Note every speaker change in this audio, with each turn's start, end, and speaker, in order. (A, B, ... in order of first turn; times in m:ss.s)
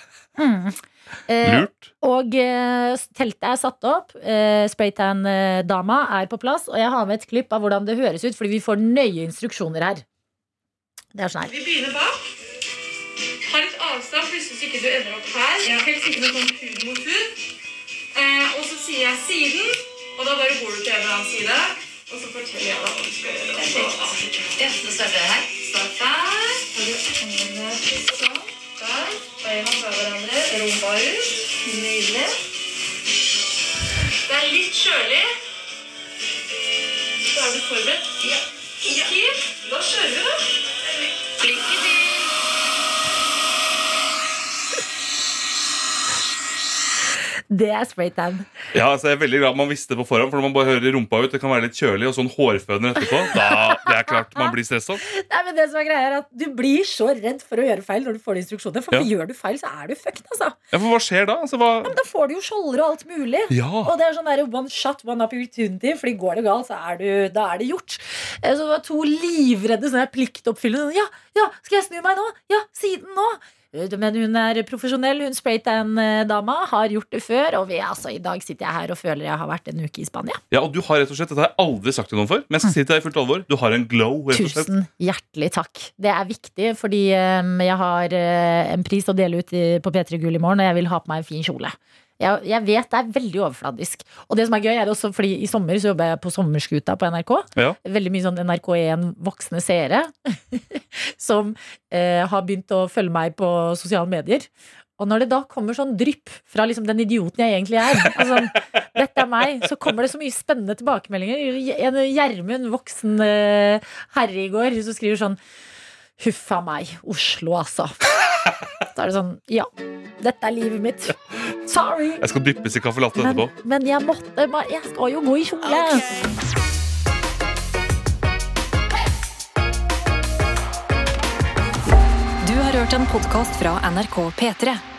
0:00.4-0:10.0 A
0:01.4-0:01.9 B
0:11.1-0:11.5 A
0:11.4-0:12.2 C
0:13.4-0:17.4 C
0:18.1-0:32.4 C
0:23.8-0:25.0 D
0:34.2-0:35.3 C
0:37.2-0:40.4 C
0:41.4-0:42.2 C
0:47.5-0:48.5 A
0:48.7-0:55.0 B
0:53.3-0:54.5 A
0:55.0-1:00.6 A
1:00.7-1:02.0 B
1:01.8-1:20.4 A
1:03.5-1:03.9 B
1:20.5-1:24.7 B
1:24.3-1:55.4 A
1:56.2-1:58.1 A
1:58.9-2:02.2 A
2:02.2-2:03.5 B
2:03.2-2:06.0 A
2:12.4-2:14.8 D